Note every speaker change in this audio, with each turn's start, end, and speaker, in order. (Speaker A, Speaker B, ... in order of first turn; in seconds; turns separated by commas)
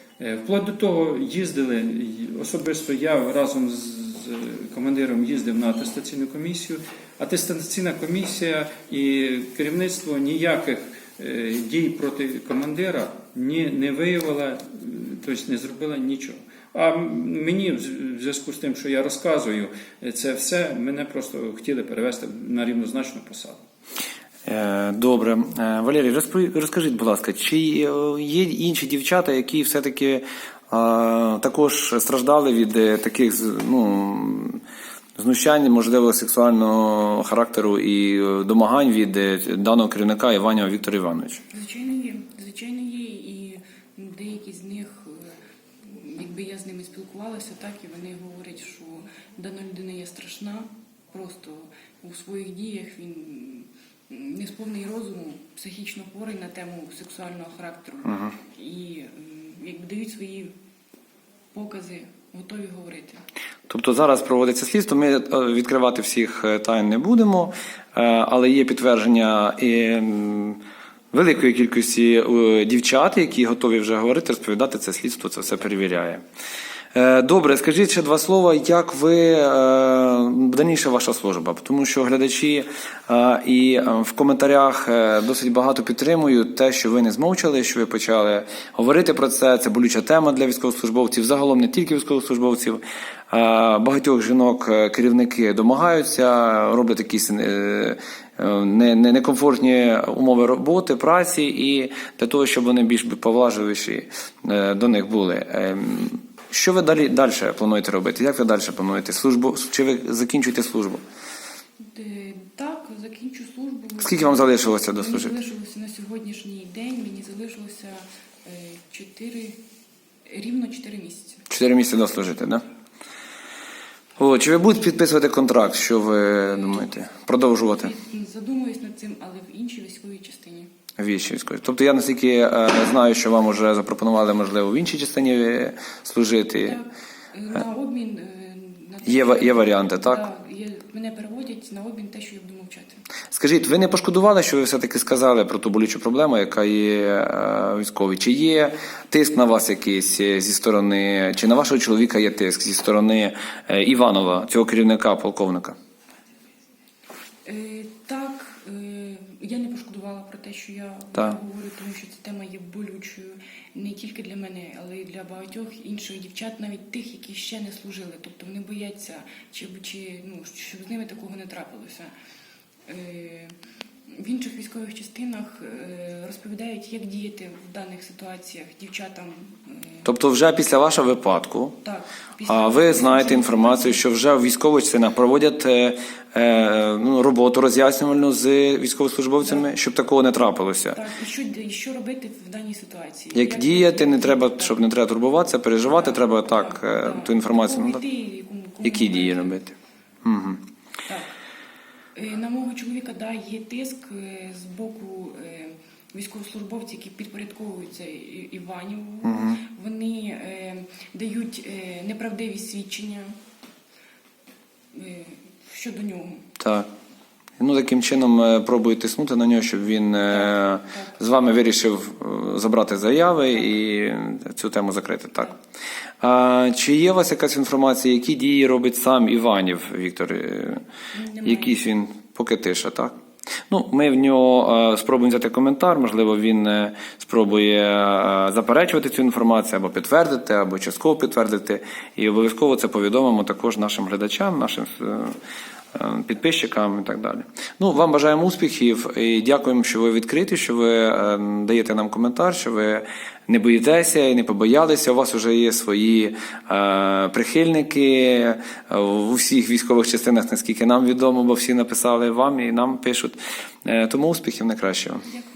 Speaker A: 0.2-23.6, Speaker B: 24.4-34.6, Speaker B: 35.2-41.4, Speaker C: 41.5-45.3, Speaker C: 45.9-60.5, Speaker B: 58.0-58.3, Speaker C: 61.5-63.2, Speaker B: 63.7-70.6, Speaker B: 71.1-76.2, Speaker B: 76.9-111.0, Speaker C: 111.8-119.6, Speaker B: 114.0-115.3, Speaker C: 120.3-121.4, Speaker B: 121.5-122.6, Speaker B: 124.2-127.9, Speaker C: 127.7-130.7, Speaker B: 131.0-136.8, Speaker C: 136.6-143.0, Speaker B: 139.1-140.2, Speaker B: 143.3-155.8, Speaker C: 157.4-172.1, Speaker C: 172.9-173.5, Speaker C: 174.1-180.0, Speaker B: 180.0-181.8, Speaker C: 181.8-184.0, Speaker B: 182.4-191.0, Speaker C: 189.4-189.7, Speaker C: 190.9-194.8, Speaker B: 193.3-198.0, Speaker C: 195.9-199.6, Speaker B: 198.8-200.6, Speaker C: 201.1-201.3, Speaker C: 202.1-213.3, Speaker B: 209.2-209.6, Speaker C: 214.9-216.5, Speaker B: 216.6-216.9, Speaker B: 217.6-225.5, Speaker C: 220.3-221.2, Speaker B: 226.2-230.8, Speaker C: 231.1-231.8, Speaker B: 231.4-233.2, Speaker B: 233.7-245.3, Speaker B: 245.9-265.2